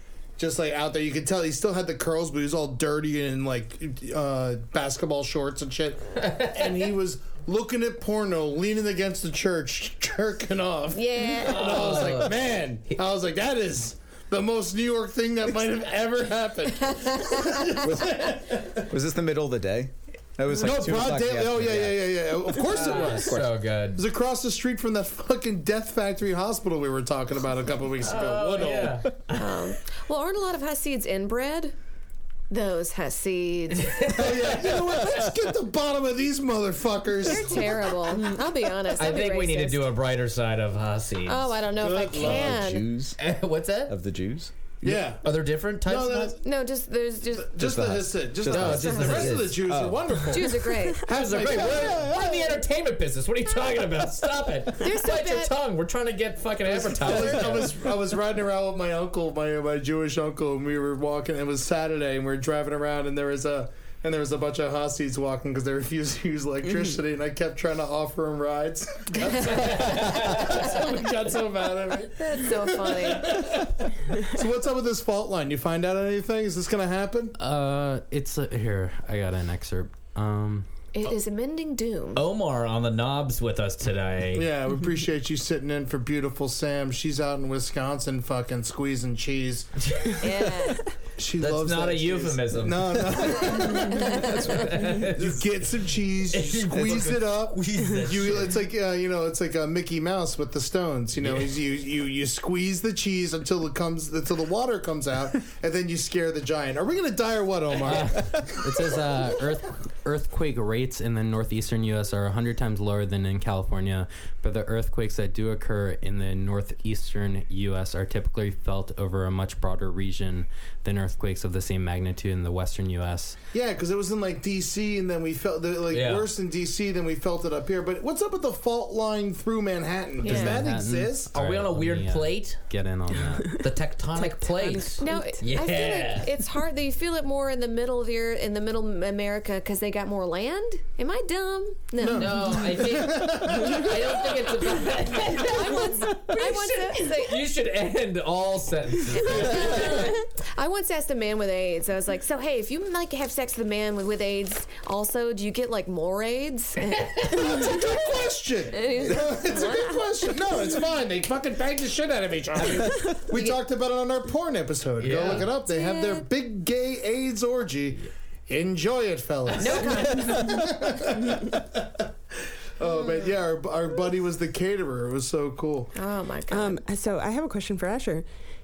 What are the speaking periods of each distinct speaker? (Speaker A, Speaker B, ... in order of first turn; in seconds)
Speaker A: 0.4-18.8, 20.5-23.4, 24.0-29.0, 34.0-37.9, 42.1-42.4, 44.8-45.2, 45.8-46.4, 47.4-52.1, 56.7-77.3, 84.3-89.7, 91.2-94.4, 95.1-108.5, 123.5-131.3, 142.0-144.0, 157.3-172.0, 172.8-175.9
Speaker B: 10.9-12.2, 17.2-17.7, 29.3-31.7, 32.5-34.3, 37.2-39.9, 41.3-42.9, 46.4-47.6, 48.6-49.3, 50.3-51.1, 54.8-55.5, 72.2-73.6, 80.9-82.2, 90.2-90.9, 94.0-94.5, 130.2-130.7, 135.0-142.9, 145.3-147.5, 149.1-158.1, 158.7-160.8, 163.3-163.6, 165.3-166.2, 169.6-170.7, 172.8-173.3, 175.9-176.8
Speaker C: 11.4-12.3, 22.6-24.0, 28.0-29.6, 33.9-34.5, 39.0-41.5, 43.2-43.9, 45.2-46.4, 48.5-49.6, 51.1-57.7, 69.7-70.6, 82.1-84.5, 89.9-90.2, 91.4-93.7, 94.2-95.4, 96.3-98.6, 107.9-108.2, 125.9-126.3, 131.3-132.6, 133.5-136.3, 142.1-150.2, 165.0-165.5
Speaker D: 17.8-23.5, 41.8-43.2, 43.9-44.5, 47.6-50.0, 94.2-94.9, 96.7-97.2
Speaker E: 77.4-80.7, 107.8-123.4, 130.2-133.6
Speaker F: 134.4-135.4, 176.5-178.2